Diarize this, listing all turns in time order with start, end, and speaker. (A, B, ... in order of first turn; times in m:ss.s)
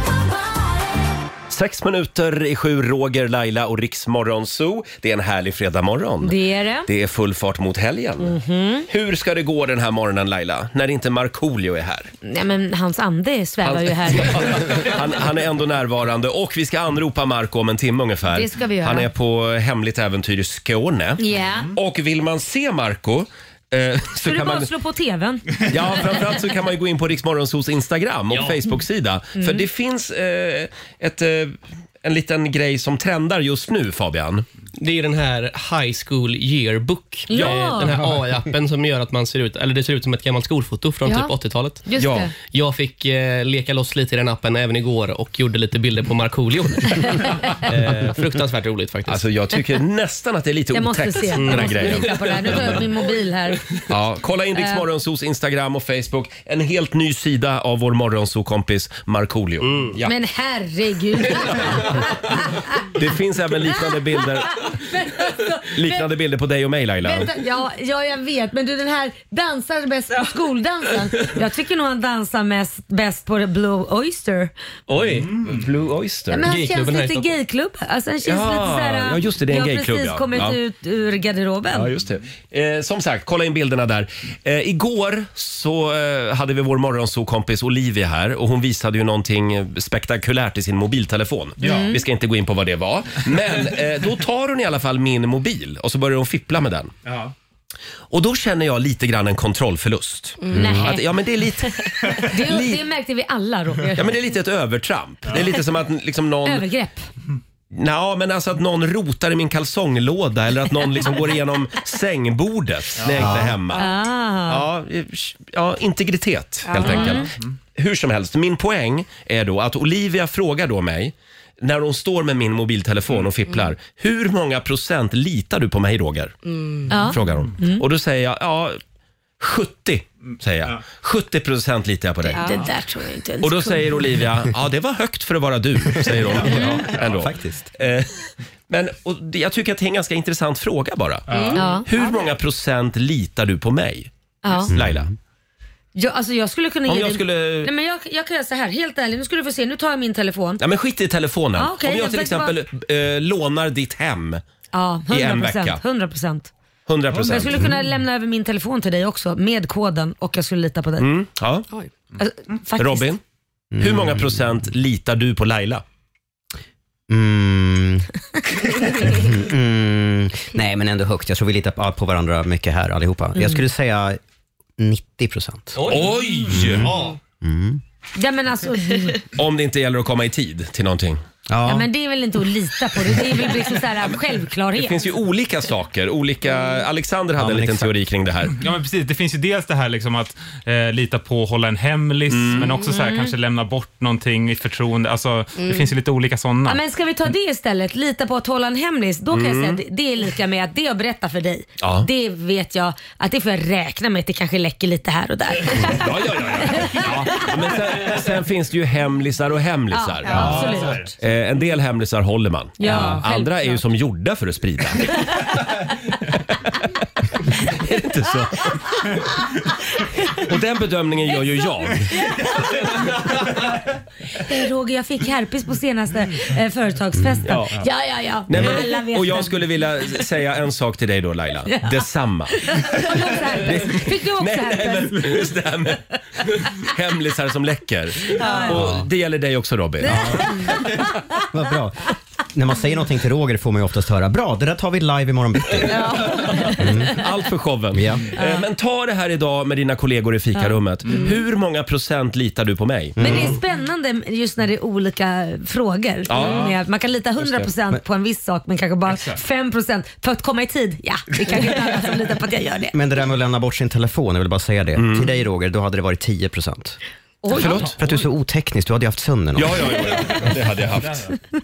0:01.5-0:12.1 A
0:06.2-0:06.9 B
0:08.2-0:08.8 B
0:12.2-0:14.8 B
0:13.6-0:21.2 A
0:18.3-0:19.1 B
0:21.2-0:21.7 B
0:21.7-0:24.7 A
0:24.2-0:25.7 B
0:25.7-0:34.4 A
0:28.3-0:28.6 C
0:29.4-0:29.6 B
0:34.8-0:41.8 C
0:37.3-0:37.9 B
0:37.3-0:37.6 A
0:41.0-0:41.3 B
0:41.8-0:42.3 B
0:42.0-0:42.3 A
0:42.5-0:49.2 C
0:49.1-0:52.8 A
0:50.7-0:53.6 B
0:51.4-0:52.7 C
0:53.9-1:00.1 A
0:54.6-0:54.8 B
0:59.6-1:00.0 C
1:00.0-1:02.8 B
1:01.5-1:02.0 A
1:02.9-1:04.6 A
1:03.7-1:06.0 B
1:05.7-1:07.3 A
1:07.0-1:14.5 B
1:14.9-1:15.4 C
1:15.3-1:16.4 A
1:16.3-1:21.9 B
1:16.4-1:17.3 C
1:18.2-1:20.6 A
1:21.7-1:36.9 A
1:31.6-1:32.0 B
1:31.6-1:31.9 D
1:37.0-1:37.3 D
1:38.1-1:42.8 A
1:40.4-1:40.7 E
1:40.5-1:41.0 B
1:40.5-1:40.9 F
1:42.1-1:44.1 B
1:44.0-1:46.6 A
1:46.4-1:47.1 B
1:47.7-1:53.9 A
1:53.0-1:53.3 D
1:53.2-1:53.6 F
1:53.8-1:54.6 B
1:54.5-2:06.3 A
1:56.7-1:57.1 E
1:56.8-1:57.3 B
1:57.2-1:57.5 D
2:06.4-2:07.0 E
2:06.9-2:07.8 B
2:07.1-2:08.8 A
2:09.4-2:12.4 A
2:12.2-2:14.0 B
2:12.4-2:12.6 E
2:13.4-2:18.2 A
2:16.4-2:17.7 F
2:16.4-2:16.8 B
2:18.7-2:24.1 A
2:21.3-2:21.6 D
2:21.3-2:21.6 E
2:21.5-2:21.9 B
2:24.4-2:24.7 B
2:24.6-2:25.1 A
2:24.7-2:25.1 F
2:26.0-2:30.6 B
2:26.9-2:27.7 A
2:30.6-2:34.4 A
2:31.6-2:32.5 B
2:34.7-2:36.5 B
2:35.1-2:35.8 A
2:36.9-2:37.7 A
2:37.2-2:41.1 B
2:41.0-2:41.6 A
2:42.2-2:43.1 B
2:42.8-2:43.2 A
2:43.7-2:44.5 F
2:43.8-2:45.8 A
2:47.1-2:48.1 F
2:48.8-2:54.2 F
2:53.4-2:53.6 B
2:54.8-2:55.8 F
2:55.8-2:56.2 C
2:55.8-2:57.1 A
2:56.5-2:57.8 F
2:56.8-2:57.1 C
2:58.2-2:59.2 B
2:59.4-3:01.2 A
3:01.5-3:01.9 F
3:01.6-3:05.0 B
3:04.7-3:08.5 A
3:07.4-3:07.9 F
3:08.5-3:16.8 D
3:12.3-3:12.7 A
3:12.8-3:13.3 B
3:15.6-3:15.9 E
3:16.6-3:27.5 B
3:19.3-3:19.8 A
3:21.8-3:22.1 A
3:25.8-3:35.2 A
3:27.0-3:27.4 D
3:29.9-3:31.1 B
3:30.3-3:31.1 D
3:32.8-3:33.8 B
3:37.6-3:38.9 A
3:40.4-3:42.2 A
3:44.3-3:49.5 B
3:47.5-3:47.7 A
3:48.5-3:56.0 A
3:51.6-3:52.0 B
3:52.6-3:55.4 B
3:56.8-4:00.6 A
3:58.4-3:58.9 B
3:58.4-3:58.8 E
3:58.8-3:59.0 F
4:00.0-4:00.8 B
4:00.1-4:00.7 F
4:01.5-4:07.2 F
4:05.9-4:06.4 E
4:07.1-4:13.5 A
4:07.9-4:08.3 F
4:08.4-4:08.6 B
4:13.2-4:13.6 F
4:13.2-4:22.9 B
4:16.3-4:16.7 A
4:16.3-4:16.7 D
4:17.4-4:17.7 A
4:19.1-4:19.4 D
4:22.9-4:27.0 F
4:25.0-4:25.3 A
4:27.4-4:27.9 B
4:27.5-4:28.0 A
4:27.6-4:30.4 F
4:29.6-4:31.3 A
4:31.0-4:31.3 D